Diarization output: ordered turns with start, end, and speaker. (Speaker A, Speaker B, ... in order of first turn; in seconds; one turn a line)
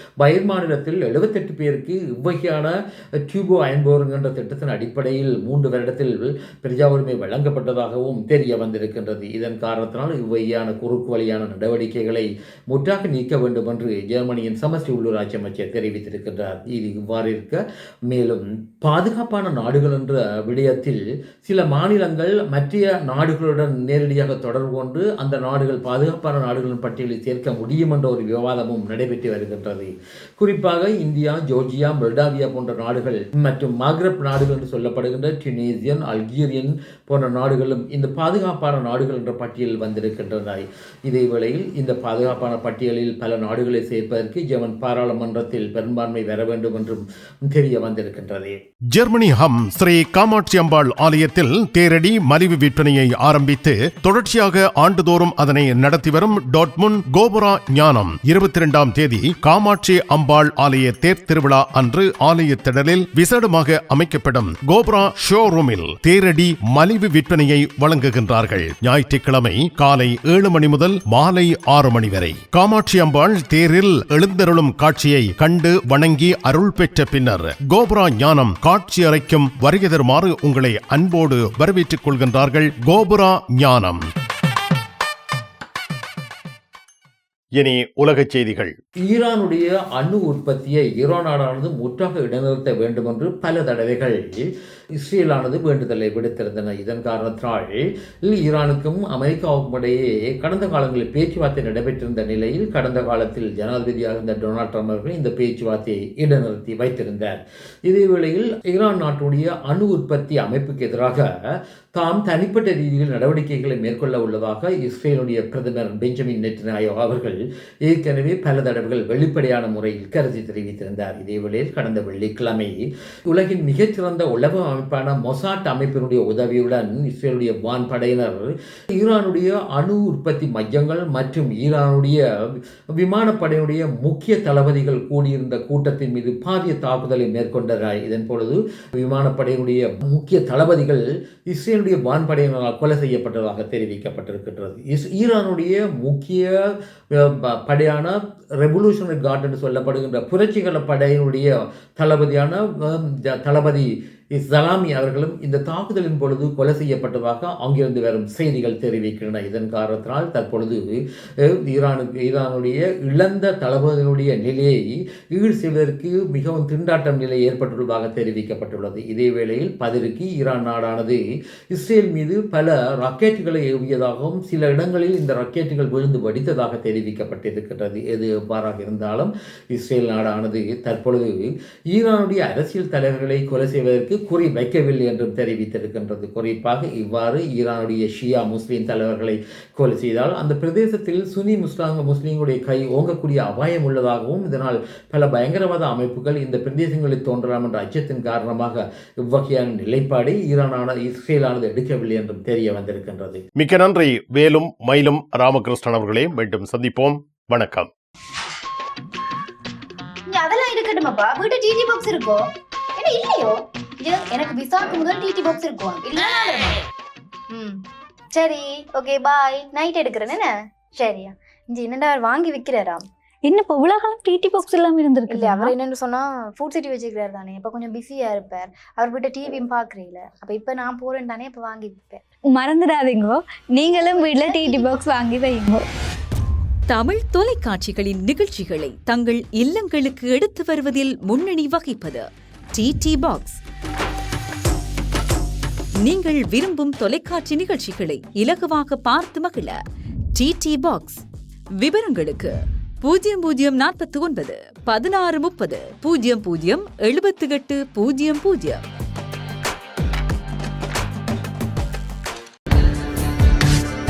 Speaker A: 0.2-48.6
Speaker B: 48.9-84.0
Speaker B: 87.6-88.7
Speaker A: 89.0-111.3
Speaker A: 111.9-203.4
Speaker B: 203.6-207.9
Speaker C: 210.3-216.8
Speaker C: 217.5-223.1
Speaker D: 223.4-225.7
Speaker C: 225.3-232.2
Speaker D: 232.5-235.8
Speaker C: 233.9-235.0
Speaker E: 236.9-243.6
Speaker E: 246.0-249.8
Speaker E: 250.3-251.2
Speaker E: 251.8-258.8